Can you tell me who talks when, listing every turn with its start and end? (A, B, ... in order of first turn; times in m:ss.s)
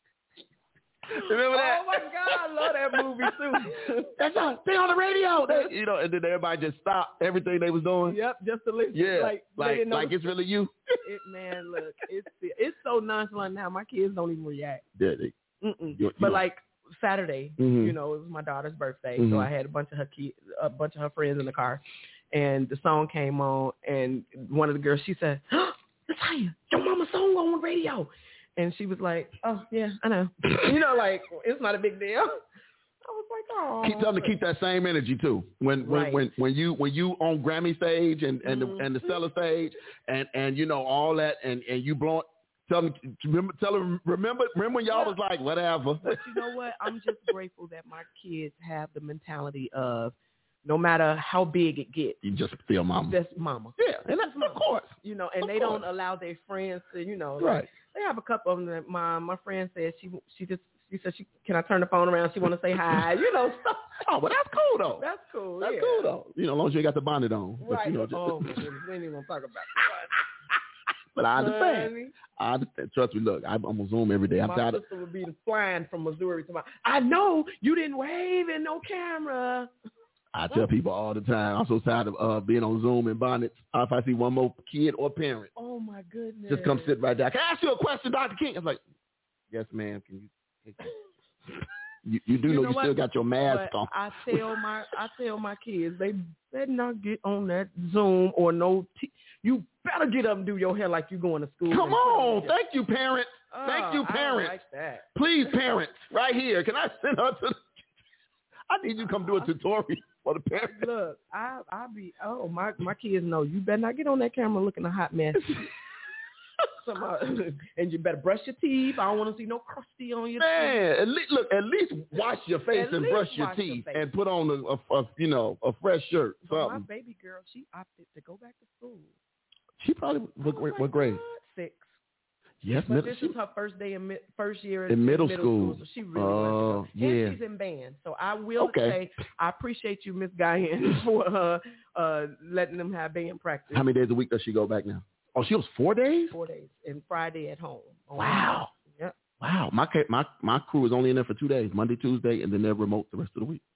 0:01.1-0:08.2 A
0:01.1-0:04.1 B
0:05.5-0:05.7 B
0:08.1-0:10.3 B
0:08.9-0:10.8 A
0:11.0-0:14.8 B
0:15.0-0:15.4 A
0:15.6-0:32.4 B
0:16.0-0:16.4 A
0:17.6-0:18.0 A
0:19.2-0:19.5 A
0:33.0-0:34.3 B
0:33.8-0:46.5 A
0:35.8-0:36.3 B
0:38.4-0:38.9 B
0:44.9-0:45.2 B
0:46.0-0:52.2 B
0:52.2-0:53.2 A
0:53.1-1:04.0 B
0:53.8-0:55.8 A
0:57.4-0:57.7 A
1:04.0-1:05.0 A
1:05.0-1:06.1 B
1:05.6-1:08.6 A
1:07.6-1:10.1 B
1:11.2-1:14.8 A
1:11.4-1:12.2 B
1:14.4-1:19.7 B
1:20.3-1:25.5 A
1:25.6-1:26.9 B
1:26.5-1:28.8 A
1:29.5-1:30.9 A
1:32.0-1:34.4 A
1:32.5-1:42.6 B
1:41.7-1:44.6 A
1:43.5-1:45.0 B
1:45.2-1:47.8 A
1:48.7-1:50.9 A
1:49.2-1:49.5 B
1:50.6-1:55.6 B
1:56.8-2:00.8 B
2:00.4-2:06.8 A
2:02.7-2:04.1 B
2:06.5-2:09.1 B
2:09.8-2:11.2 A
2:10.4-2:11.9 B
2:12.6-2:13.4 A
2:12.9-2:23.8 B
2:14.9-2:17.4 A
2:18.6-2:19.0 A
2:23.7-2:26.3 A
2:26.3-2:29.1 B
2:28.2-2:28.7 A
2:29.4-2:33.6 A